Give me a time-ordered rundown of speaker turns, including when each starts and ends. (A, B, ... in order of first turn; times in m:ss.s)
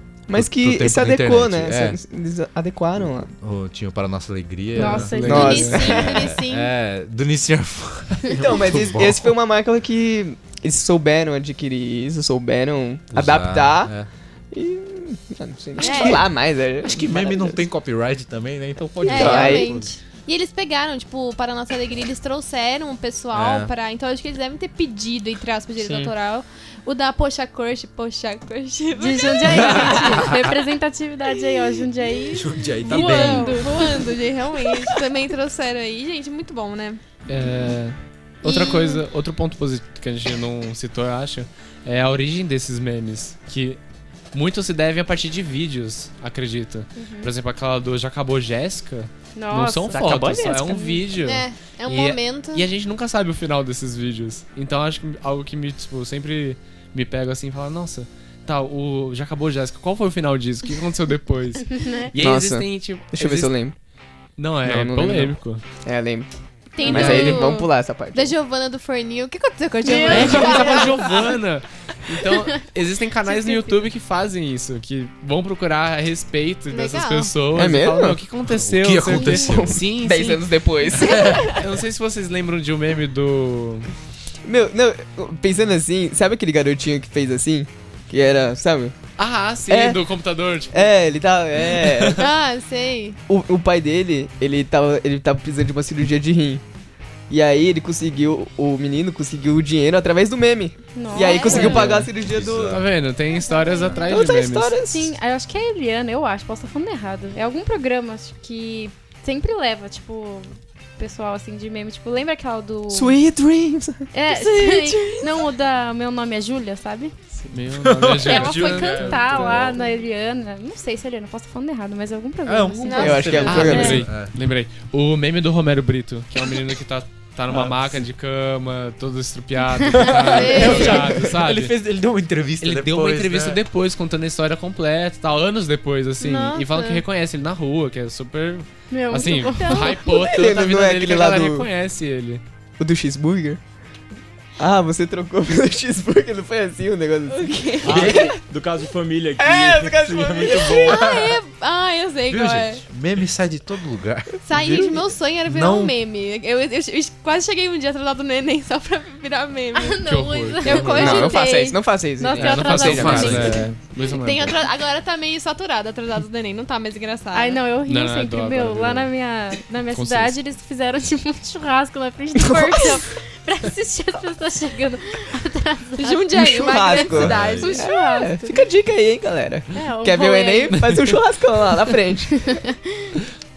0:00.3-0:03.3 A
0:00.3-0:02.0 B
0:03.3-0:09.3 B
0:04.7-0:06.0 C
0:04.7-0:06.0 D
0:05.2-0:05.8 A
0:05.3-0:06.7 E
0:08.3-0:17.6 A
0:13.1-0:14.1 B
0:15.8-0:16.2 E
0:16.8-0:19.9 B
0:19.0-0:30.2 E
0:19.1-0:19.8 A
0:23.3-0:23.7 B
0:25.8-0:26.1 A
0:29.0-0:34.1 D
0:29.4-0:30.5 B
0:32.3-0:33.8 B
0:32.8-0:37.0 E
0:37.3-0:43.8 C
0:38.4-0:39.0 E
0:44.3-1:03.6 C
0:47.0-0:47.3 D
0:49.3-0:51.0 D
0:49.9-0:50.8 A
0:51.2-0:52.6 E
1:01.8-1:02.1 D
1:02.2-1:03.8 A
1:04.4-1:05.6 C
1:04.6-1:08.4 A
1:06.7-1:11.0 E
1:06.8-1:07.4 C
1:09.8-1:11.0 D
1:10.1-1:20.4 C
1:10.2-1:10.6 A
1:13.2-1:13.8 D
1:16.7-1:17.3 E
1:17.5-1:18.2 A
1:18.4-1:19.8 B
1:19.1-1:19.4 D
1:19.4-1:21.5 A
1:21.0-1:21.4 B
1:21.5-1:23.9 C
1:24.4-1:29.0 A
1:29.2-1:30.9 C
1:29.6-1:30.0 A
1:30.7-1:32.2 A
1:32.2-1:33.2 E
1:33.3-1:36.6 A
1:37.3-1:42.8 A
1:40.9-1:42.0 D
1:41.1-1:41.8 E
1:41.5-1:43.1 B
1:41.5-1:42.1 C
1:42.7-1:44.8 C
1:43.3-1:53.1 D
1:44.0-1:45.1 A
1:52.9-1:54.1 A
1:54.1-1:57.2 D
1:54.3-1:55.5 E
1:57.5-1:59.6 C
1:57.9-1:59.8 B
1:58.2-2:04.1 D
2:02.4-2:04.3 B
2:02.8-2:03.6 E
2:03.0-2:04.0 A
2:03.4-2:11.8 C
2:07.5-2:08.0 B
2:10.0-2:13.6 B
2:10.3-2:11.0 E
2:12.6-2:22.4 C
2:16.2-2:17.0 E
2:18.9-2:20.0 D
2:19.2-2:20.0 E
2:20.0-2:21.7 A
2:22.8-2:23.6 A
2:24.6-2:28.3 A
2:27.3-2:28.4 E
2:27.8-2:28.4 B
2:27.8-2:31.0 F
2:29.4-2:31.0 A
2:30.7-2:32.8 E
2:31.0-2:31.4 B
2:32.3-2:36.0 B
2:34.4-2:40.0 E
2:39.7-2:43.6 D
2:40.0-2:41.1 C
2:40.6-2:41.8 E
2:41.0-2:43.7 A
2:42.3-2:44.5 C
2:42.8-2:43.7 B
2:43.2-2:47.6 E
2:47.3-2:58.6 D
2:47.8-2:49.1 C
2:49.9-2:50.4 C
2:52.4-2:52.8 A
2:56.0-2:57.9 E
2:56.3-3:02.6 A
2:57.1-2:57.7 B
2:59.7-3:01.1 D
3:02.5-3:03.1 D